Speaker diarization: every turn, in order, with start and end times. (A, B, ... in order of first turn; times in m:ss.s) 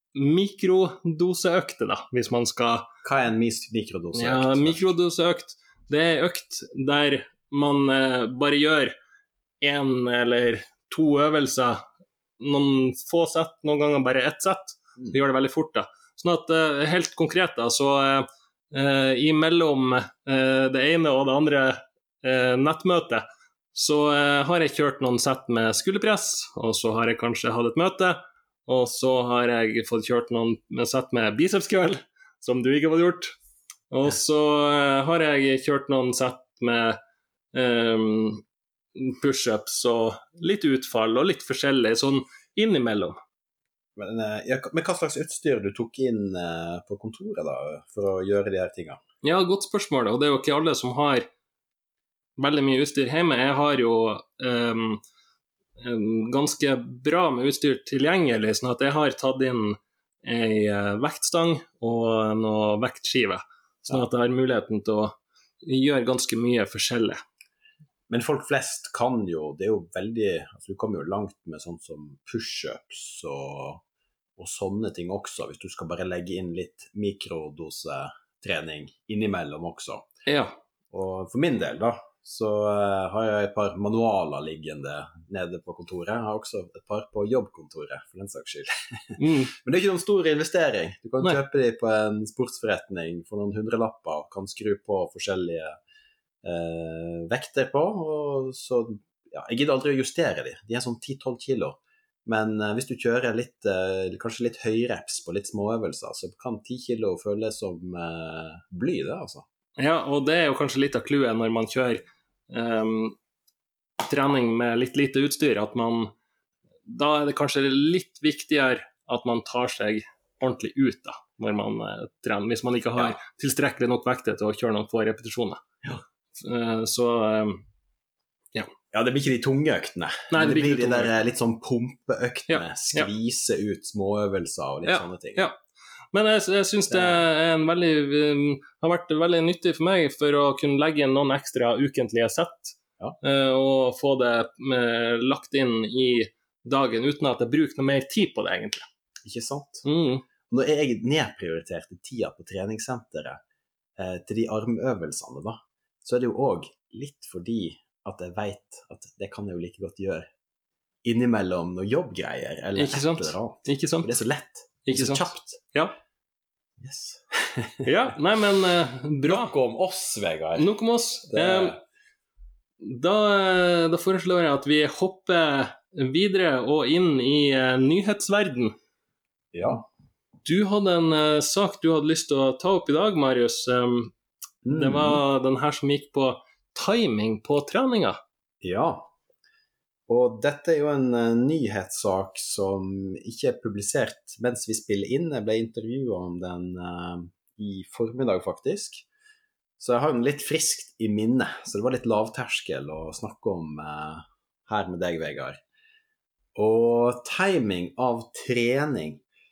0:00.1-0:02.9 A
0:03.0-0:04.8 B
0:04.1-0:08.9 A
0:09.6-0:11.8 A
0:12.4-0:33.3 A
0:33.9-0:37.0 A
0:37.5-0:38.4 A
0:38.9-0:43.2 A
0:44.0-0:49.0 B
0:49.2-0:51.3 A
0:52.4-0:55.0 A
0:55.8-1:07.2 A
1:08.1-1:13.8 B
1:14.4-1:20.1 B
1:20.2-1:20.6 A
1:20.9-1:35.8 B
1:29.2-1:29.5 A
1:36.4-1:49.4 B
1:49.8-1:53.2 A
1:54.0-1:56.1 A
1:56.8-2:05.6 A
2:06.4-2:07.6 A
2:08.9-2:15.5 B
2:10.3-2:11.1 A
2:12.5-2:13.1 A
2:14.8-2:15.6 A
2:16.1-2:28.8 A
2:16.9-2:17.2 B
2:29.2-2:29.8 B
2:29.8-2:30.2 A
2:30.5-2:33.4 B
2:34.0-2:40.3 B
2:41.0-2:45.6 B
2:42.8-2:44.1 A
2:44.8-2:45.9 A
2:46.8-2:48.1 B
2:47.8-2:49.5 A
2:49.2-2:50.7 B
2:50.6-2:51.7 A
2:51.3-2:51.8 B
2:52.8-2:58.7 A
2:59.5-2:59.8 B
3:00.4-3:04.1 A
3:04.6-3:05.2 B
3:04.7-3:08.2 A
3:08.6-3:09.1 B
3:10.1-3:19.0 B
3:19.8-3:25.6 B
3:26.5-3:29.2 B